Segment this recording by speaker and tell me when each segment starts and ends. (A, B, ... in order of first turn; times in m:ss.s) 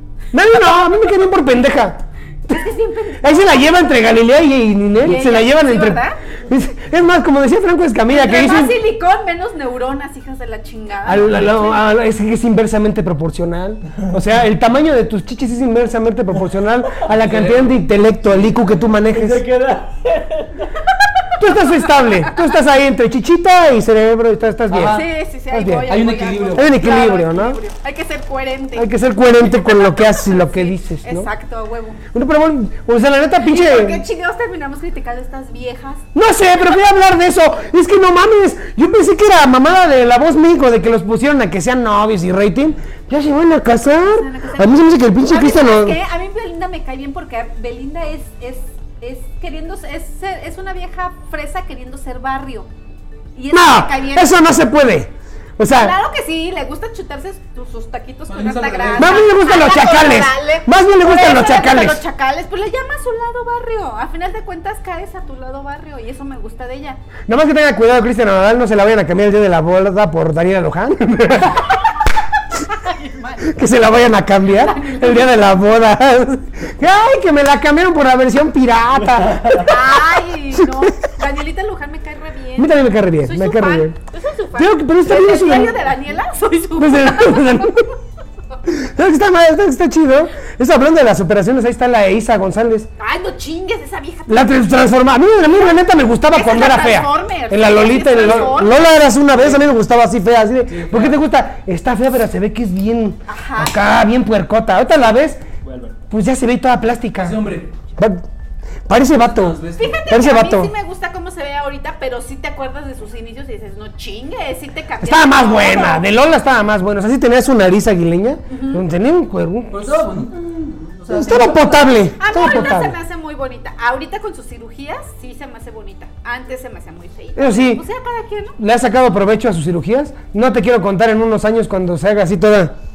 0:00.3-0:02.7 A
0:02.5-0:03.9 B
0:03.2-0:08.8 A
0:05.0-0:06.2 B
0:08.1-0:11.8 B
0:11.0-0:19.4 A
0:17.0-0:17.8 C
0:19.1-0:20.8 D
0:21.4-0:25.9 A
0:24.7-0:25.1 C
0:24.9-0:28.9 B
0:25.9-0:26.7 C
0:26.5-0:27.6 A
0:28.7-0:31.3 A
0:29.6-0:32.0 B
0:32.1-0:34.0 A
0:33.4-0:36.1 B
0:36.1-0:46.0 A
0:43.9-0:52.7 B
0:53.3-0:54.4 B
0:53.5-0:56.0 A
0:55.7-1:07.0 B
0:58.3-0:59.3 C
0:59.0-1:02.0 A
1:07.3-1:11.6 A
1:12.6-1:13.6 B
1:13.5-1:20.0 A
1:14.4-1:15.5 B
1:19.6-1:27.9 B
1:20.5-1:20.9 A
1:22.6-1:24.0 A
1:24.6-1:25.8 A
1:26.8-1:27.9 A
1:28.6-1:32.9 A
1:33.0-1:34.6 B
1:34.3-1:45.4 A
1:36.3-1:39.0 B
1:39.4-1:39.6 C
1:40.7-1:41.2 C
1:43.3-1:43.7 B
1:45.6-1:46.0 D
1:46.1-1:47.4 A
1:47.2-1:47.7 C
1:48.0-1:48.2 A
1:48.9-1:50.7 A
1:49.1-1:50.0 C
1:49.8-1:56.0 B
1:55.0-2:00.0 A
1:58.5-1:58.8 B
1:59.7-2:02.0 C
2:01.1-2:02.9 A
2:02.2-2:08.6 B
2:07.4-2:07.8 A
2:08.6-2:12.7 A